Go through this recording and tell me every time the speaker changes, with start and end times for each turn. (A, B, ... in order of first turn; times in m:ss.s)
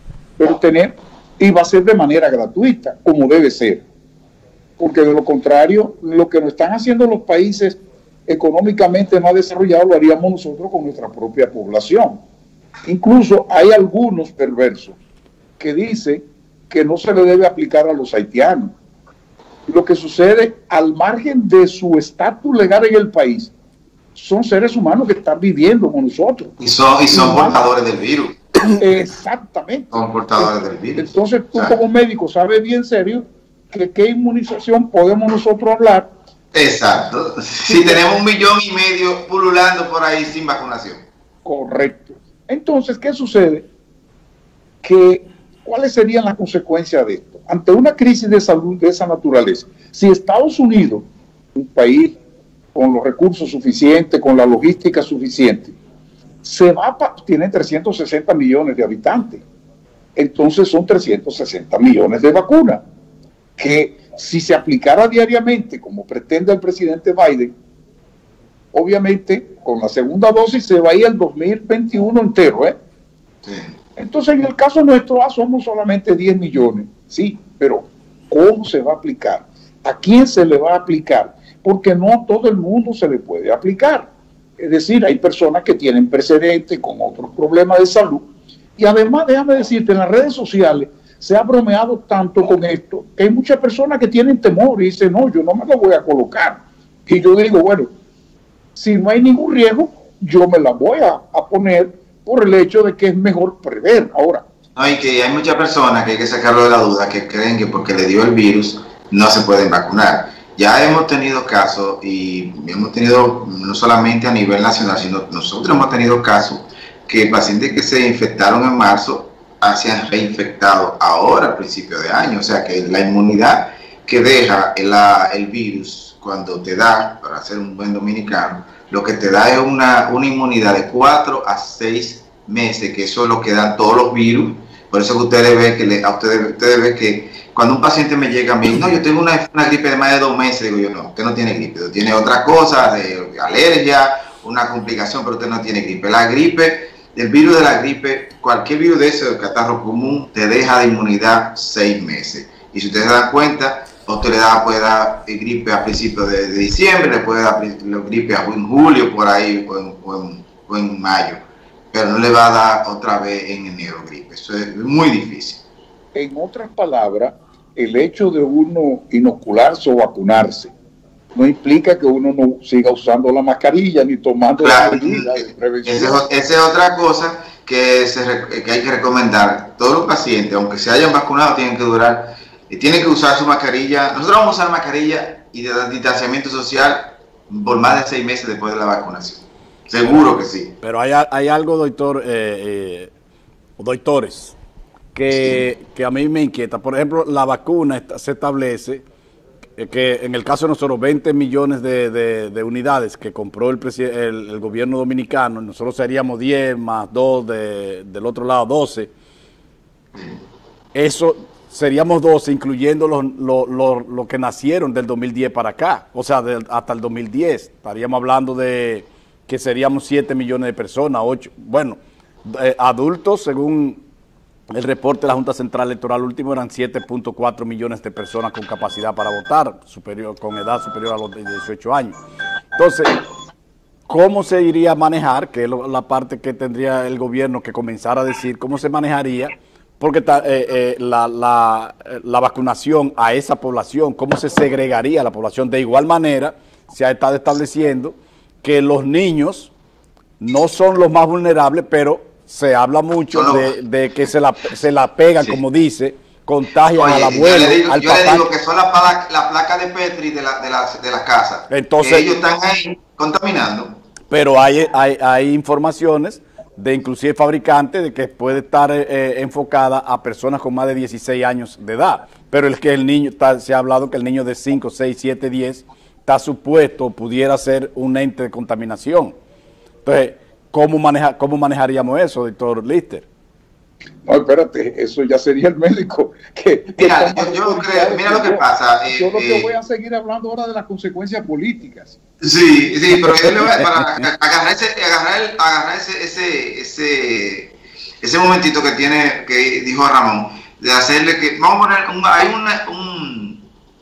0:00.4-0:03.8 A
0:04.8-0:12.2 A
0:12.8-0:15.0 A
0:15.6-0:18.7 A
0:19.7-0:23.5 A
0:24.1-0:26.5 A
0:26.6-0:28.4 B
0:27.1-0:27.6 A
0:28.8-0:36.1 A
0:29.9-0:31.7 B
0:36.5-0:41.0 B
0:37.7-0:38.0 A
0:41.4-0:43.7 A
0:44.8-0:52.2 A
0:52.7-0:55.7 A
0:56.4-0:59.4 A
1:00.2-1:02.8 A
1:03.6-1:07.5 A
1:08.7-1:12.7 A
1:13.4-1:13.7 B
1:14.0-1:37.9 A
1:38.7-1:44.4 A
1:44.8-2:45.6 B
2:46.1-2:50.7 A
2:51.3-2:56.2 A
2:54.6-3:10.7 B
3:10.8-3:13.1 C
3:13.8-3:14.5 C
3:15.1-3:19.0 C
3:15.3-3:15.6 B
3:19.8-3:29.1 C
3:30.9-3:44.0 C
3:44.7-3:52.2 C
3:52.8-3:53.2 C
3:54.1-4:09.7 C
4:10.4-4:18.5 C
4:13.3-4:13.7 B
4:16.9-4:24.0 B
4:21.7-4:22.3 C
4:24.3-4:39.3 C
4:40.0-4:43.2 C
4:44.2-4:52.2 A
4:47.0-4:49.7 B
4:52.4-5:03.6 B
4:53.3-4:54.2 C